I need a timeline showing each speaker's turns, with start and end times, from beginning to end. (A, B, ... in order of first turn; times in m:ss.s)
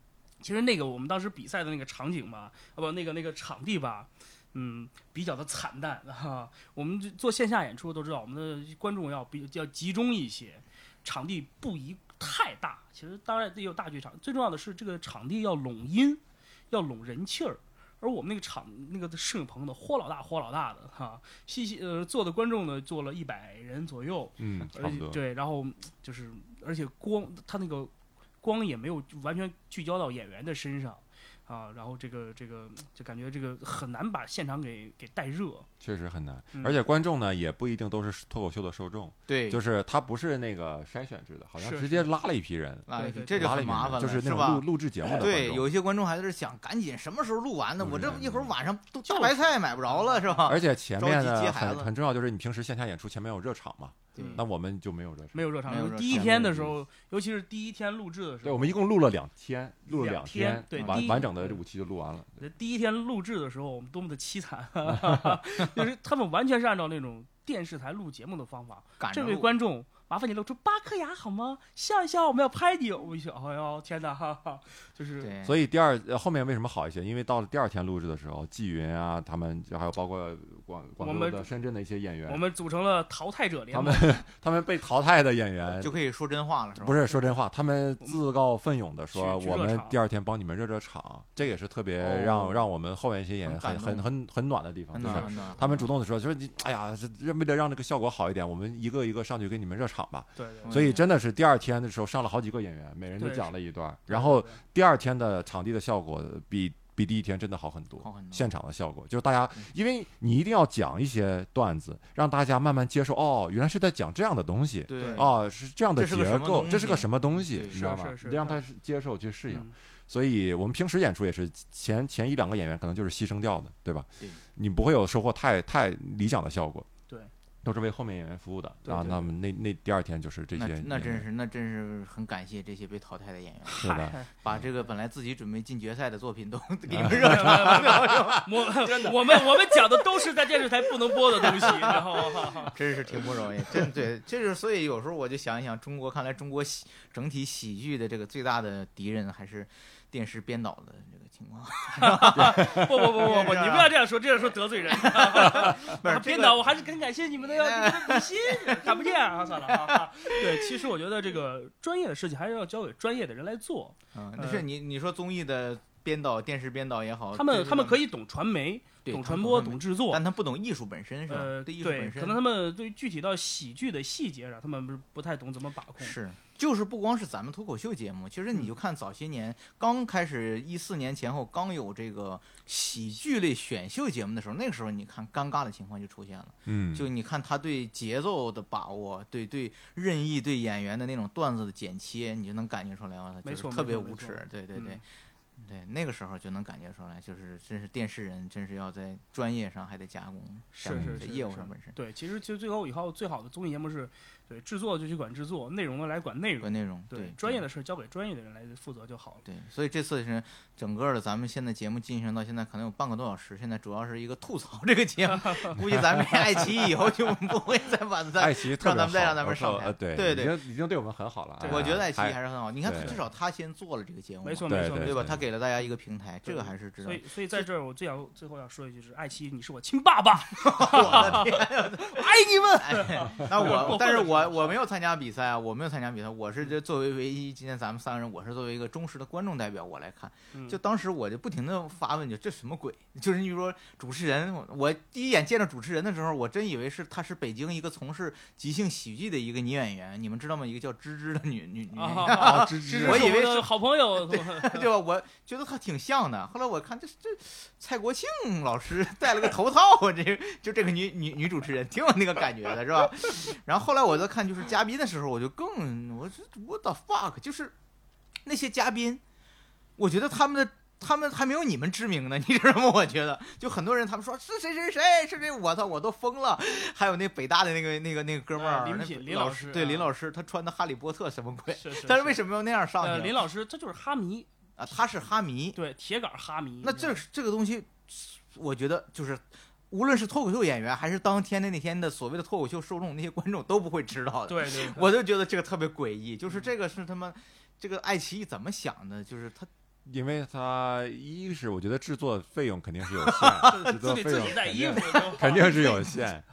0:00.4-0:35.7 A
0:24.4-0:25.2 B
0:35.8-0:45.7 B
0:39.3-0:39.6 C
0:41.6-0:42.1 A
0:42.9-0:51.9 C
0:42.9-0:43.6 A
0:47.8-0:48.5 B
0:49.1-0:50.4 A
0:50.4-0:55.5 B
0:54.1-0:54.4 C
0:54.2-0:54.4 A
0:55.3-0:58.8 A
0:55.7-0:56.4 C
0:56.0-0:56.8 B
0:58.4-1:02.4 B
0:59.9-1:01.6 A
1:00.7-1:01.1 C
1:02.4-1:15.3 A
1:04.9-1:05.4 B
1:09.0-1:09.5 C
1:15.2-1:15.6 C
1:15.4-1:22.4 B
1:21.0-1:21.5 A
1:22.3-1:24.2 A
1:23.7-1:26.0 B
1:25.8-1:27.2 C
1:26.8-2:06.9 B
1:29.1-1:30.0 A
1:32.0-1:32.6 C
1:33.4-1:34.1 C
1:34.9-1:35.9 C
1:35.0-1:35.5 A
1:40.4-1:40.8 A
1:40.6-1:41.0 C
1:43.2-1:43.5 A
1:44.1-1:44.6 A
1:48.0-1:48.5 C
1:54.9-1:55.3 C
1:55.0-1:55.2 A
1:55.9-1:57.8 C
1:57.7-1:58.6 A
2:07.6-2:11.3 B
2:08.8-2:09.3 A
2:10.5-2:33.9 C
2:13.7-2:14.6 B
2:13.7-2:14.3 A
2:16.9-2:17.8 B
2:17.0-2:22.8 A
2:32.0-2:44.6 A
2:32.4-2:32.9 B
2:34.9-2:36.6 C
2:37.4-2:40.6 C
2:44.1-2:48.0 C
2:47.3-2:50.2 A
2:49.0-2:52.4 C
2:51.3-2:56.2 A
2:56.0-3:15.0 C
3:06.6-3:07.0 B
3:13.4-3:15.0 A
3:15.6-3:22.0 C
3:20.8-3:29.4 A
3:20.9-3:21.2 B
3:26.6-3:27.6 C
3:29.4-3:40.6 C
3:35.3-3:35.8 A
3:38.4-3:43.2 B
3:41.6-3:42.0 A
3:41.6-3:47.6 C
3:44.4-3:45.4 A
3:44.7-3:45.4 B
3:46.4-3:54.8 A
3:50.5-4:27.7 C
3:51.0-3:51.4 B
4:00.5-4:00.8 A
4:11.9-4:14.9 A
4:12.3-4:13.4 B
4:28.4-4:29.2 C
4:30.0-4:43.4 C
4:38.5-4:40.1 A
4:41.7-4:42.4 A
4:43.0-4:44.5 A
4:44.8-4:45.8 C
4:45.7-4:47.2 A
4:46.8-4:59.7 C
4:54.5-4:55.1 A
5:00.0-5:06.4 B
5:03.2-5:03.9 C
5:03.6-5:06.0 A
5:05.4-5:06.1 C